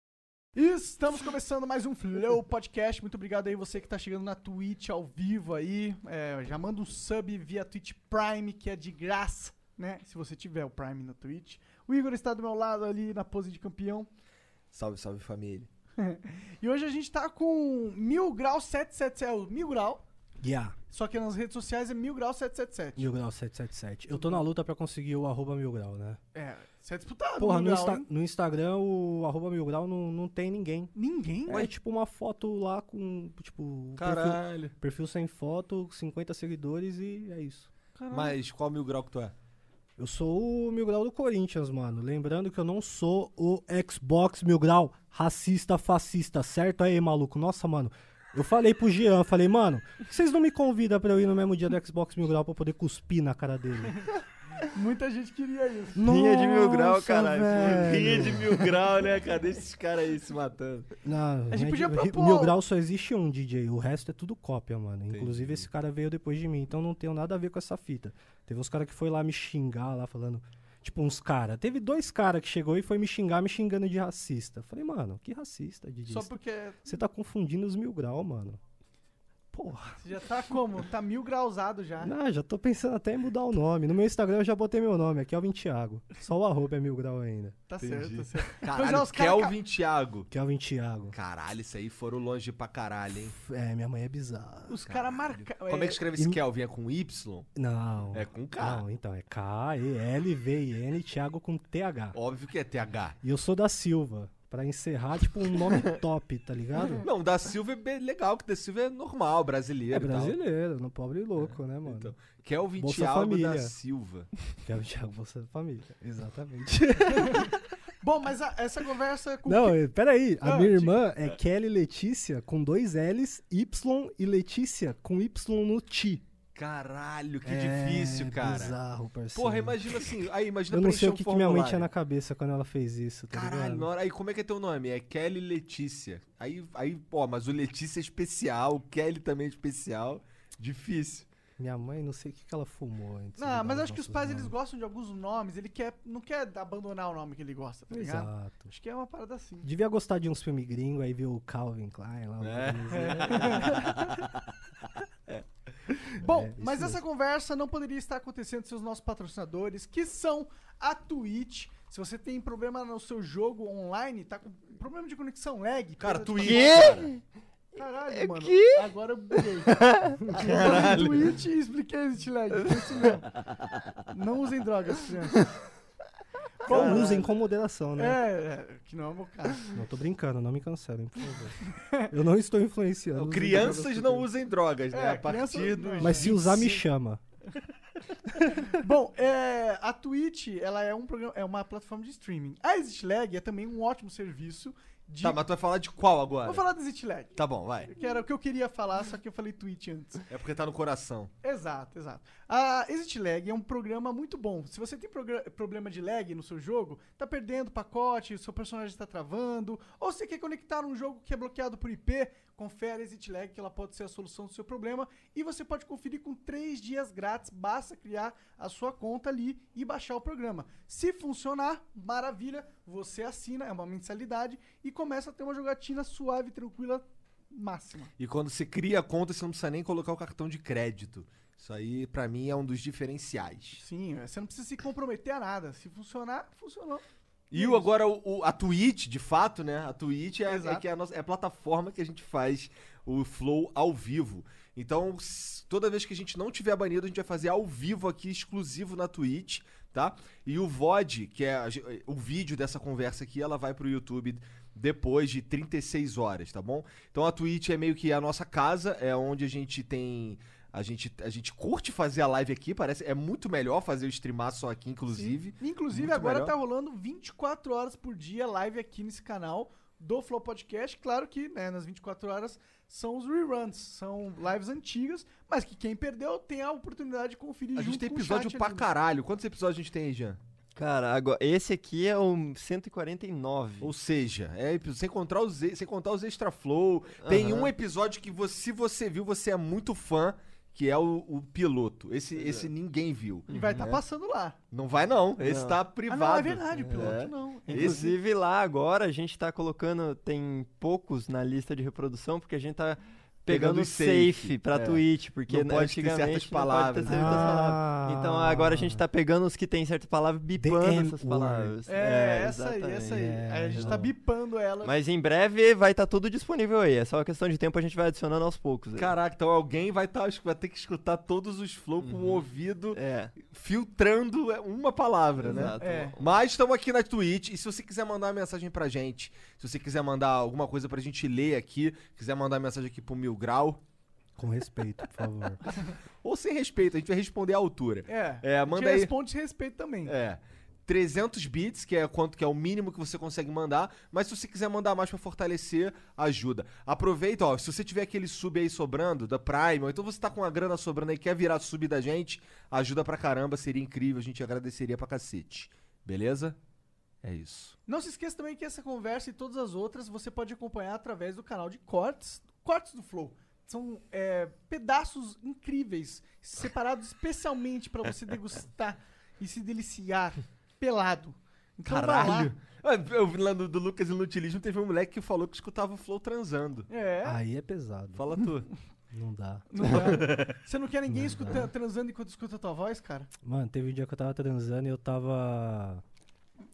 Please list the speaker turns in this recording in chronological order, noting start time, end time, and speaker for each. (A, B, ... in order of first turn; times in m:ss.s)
0:00.6-0:14.1 A
0:14.7-0:15.7 B
0:16.0-0:20.0 A
0:20.4-0:20.8 C
0:20.9-0:23.1 A
0:23.0-0:26.2 C
0:24.1-0:24.4 A
0:26.3-0:28.0 A
0:27.4-0:30.9 C
0:31.0-0:31.7 A
0:31.5-0:37.7 C
0:34.0-0:34.7 B
0:38.0-0:38.4 A
0:38.1-0:39.3 B
0:40.0-0:54.0 C
0:54.7-0:56.1 A
0:56.0-0:58.6 C
0:56.0-1:00.5 D
0:58.3-0:59.6 B
1:00.4-1:00.8 B
1:01.0-1:18.6 C
1:01.5-1:02.6 A
1:05.1-1:05.7 B
1:16.1-1:16.9 A
1:19.5-1:20.0 C
1:20.0-1:22.1 A
1:22.0-1:27.6 C
1:27.7-1:29.6 A
1:27.8-1:30.3 B
1:30.3-1:31.2 C
1:31.1-1:33.4 B
1:33.3-1:34.8 C
1:34.7-1:36.0 A
1:34.9-1:37.5 B
1:37.6-1:42.2 C
1:38.1-1:38.8 B
1:42.1-1:43.2 B
1:43.2-1:47.0 C
1:47.0-1:50.3 B
1:49.9-1:52.1 C
1:51.4-1:54.3 B
1:52.8-1:53.7 C
1:54.7-1:57.6 C
1:58.0-1:59.8 A
1:59.5-2:06.2 C
2:00.4-2:01.0 A
2:06.6-2:08.8 B
2:07.4-2:09.9 C
2:09.3-2:11.9 B
2:10.7-2:13.9 C
2:13.3-2:21.3 B
2:21.6-2:24.5 C
2:23.4-2:29.7 A
2:27.9-2:28.7 C
2:29.6-2:33.8 C
2:32.4-2:34.3 B
2:33.0-2:33.8 A
2:36.2-2:47.0 A
2:36.2-2:37.0 C
2:46.0-2:47.1 B
2:46.4-2:47.2 D
2:47.8-2:53.3 A
2:48.1-2:50.4 D
2:50.4-2:51.4 B
2:54.1-2:55.4 A
2:56.6-2:57.2 A
2:56.7-2:58.2 C
2:56.7-2:57.2 B
2:58.0-2:59.7 A
2:59.7-3:01.6 C
3:01.8-3:02.1 A
3:02.1-3:04.3 C
3:03.2-3:06.6 B
3:04.9-3:06.8 A
3:06.0-3:07.2 C
3:08.6-3:15.4 A
3:15.2-3:16.6 B
3:16.4-3:17.3 A
3:17.4-3:17.9 B
3:17.9-3:20.3 A
3:20.3-3:21.3 B
3:21.4-3:48.1 A
3:48.2-3:53.8 B
3:53.8-3:57.9 A
3:57.5-4:26.5 B
4:00.5-4:00.8 A
4:25.1-4:38.9 A
4:37.8-4:40.4 B
4:40.8-4:43.9 D
4:43.8-4:54.0 B
4:47.2-4:47.7 D
4:52.4-4:52.7 D
4:53.5-4:53.8 D
4:53.5-4:54.6 A
4:54.7-4:58.2 B
4:55.4-4:55.8 D
4:56.1-4:58.0 A
4:56.8-4:57.1 D
4:57.7-5:14.0 D
5:03.5-5:07.7 B
5:07.1-5:09.0 C
5:10.6-5:11.7 C
5:11.9-5:15.0 A
5:13.2-5:14.1 C
5:14.8-5:19.1 D
5:19.0-5:33.8 B
5:22.0-5:23.4 D
5:25.4-5:26.3 D
5:25.6-5:26.2 A
5:34.4-5:35.6 C
5:36.2-5:39.1 B
5:38.1-5:40.1 A
5:40.1-5:56.6 B
5:57.2-5:57.8 B
5:57.9-6:12.5 A
6:11.9-6:16.9 B
6:16.9-6:17.4 A
6:17.2-6:18.2 C
6:18.2-6:18.7 B
6:19.1-6:20.2 C
6:19.7-6:23.3 A
6:19.8-6:20.5 B
6:21.1-6:21.7 C
6:23.4-6:26.0 C